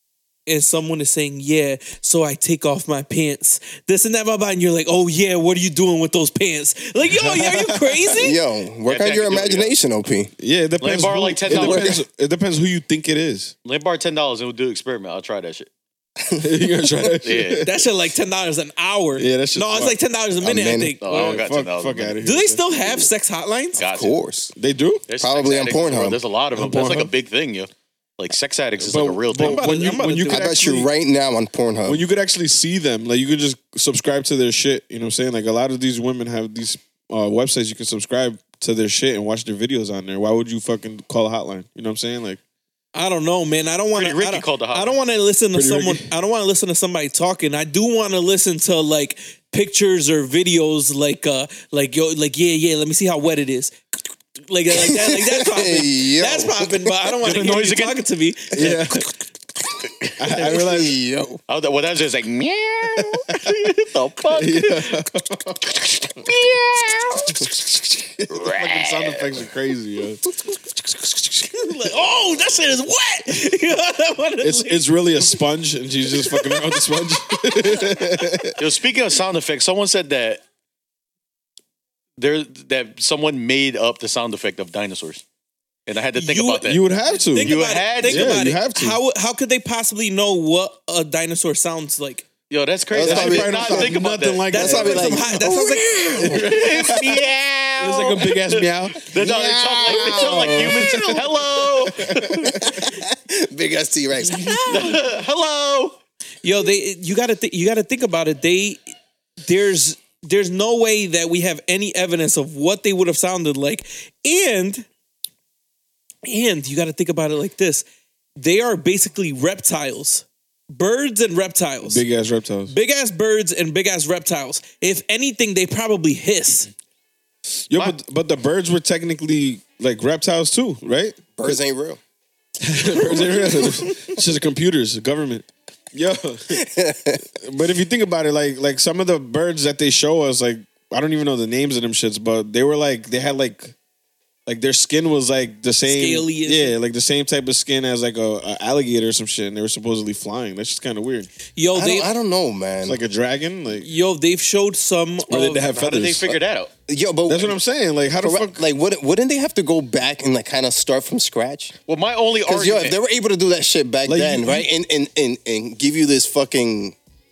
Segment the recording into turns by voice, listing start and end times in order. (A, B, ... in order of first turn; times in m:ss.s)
0:00.5-0:08.4 A
0:07.1-0:08.1 B
0:08.1-0:10.3 C
0:08.9-0:09.7 D
0:10.4-0:13.5 B
0:10.8-0:12.0 D
0:11.5-0:12.0 C
0:13.6-0:15.7 D
0:16.2-0:17.1 C
0:16.4-0:17.8 B
0:17.2-0:17.7 D
0:17.6-0:21.4 A
0:19.2-0:20.0 B
0:20.4-0:21.0 C
0:21.0-0:22.2 D
0:21.1-0:22.6 B
0:22.2-0:23.8 A
0:23.8-0:24.2 D
0:23.8-0:24.5 C
0:24.6-0:25.0 B
0:25.1-0:29.8 D
0:25.2-0:26.2 C
0:26.6-0:27.1 B
0:28.8-0:30.8 B
0:29.4-0:30.8 A
0:30.2-0:32.0 C
0:31.9-0:42.4 B
0:42.9-0:53.8 A
0:43.9-0:45.0 D
0:45.5-0:46.1 B
0:54.5-0:59.1 A
0:54.7-0:56.9 C
0:57.2-0:58.1 D
0:58.5-0:59.1 B
1:00.0-1:00.5 D
1:00.2-1:01.0 B
1:00.3-1:01.4 C
1:01.5-1:05.0 D
1:03.0-1:03.5 B
1:04.3-1:05.6 B
1:05.6-1:07.5 D
1:07.4-1:10.2 B
1:08.3-1:09.4 D
1:11.0-1:11.4 B
1:11.4-1:14.9 A
1:14.4-1:18.6 B
1:16.3-1:18.1 A
1:18.6-1:20.4 D
1:22.2-1:25.2 D
1:25.9-1:26.8 D
1:26.2-1:26.7 A
1:26.6-1:29.0 B
1:27.3-1:32.3 A
1:27.4-1:28.5 D
1:32.5-1:34.5 D
1:32.9-1:34.0 C
1:33.0-1:35.5 B
1:34.5-1:36.3 A
1:34.5-1:36.8 C
1:36.2-1:37.2 B
1:36.2-1:42.8 D
1:37.8-1:41.3 B
1:39.1-1:41.3 C
1:41.9-1:42.9 B
1:42.4-1:45.0 C
1:44.6-1:46.0 D
1:46.4-1:48.8 A
1:49.4-1:54.9 A
1:56.2-1:57.8 A
1:58.4-2:02.0 A
2:01.8-2:02.7 B
2:02.7-2:06.7 A
2:07.7-2:11.6 B
2:11.4-2:12.0 C
2:12.6-2:16.6 B
2:12.9-2:14.0 A
2:16.5-2:17.2 C
2:17.4-2:23.7 B
2:24.5-2:31.3 B
2:25.9-2:26.8 A
2:31.6-2:32.1 A
2:31.7-2:33.0 C
2:32.8-2:33.9 B
2:33.8-2:35.7 A
2:35.3-2:36.4 B
2:35.7-2:36.7 D
2:36.9-2:37.6 C
2:37.3-2:38.6 B
2:38.2-2:41.8 C
2:41.9-2:43.0 D
2:42.4-2:47.0 C
2:44.1-2:44.7 B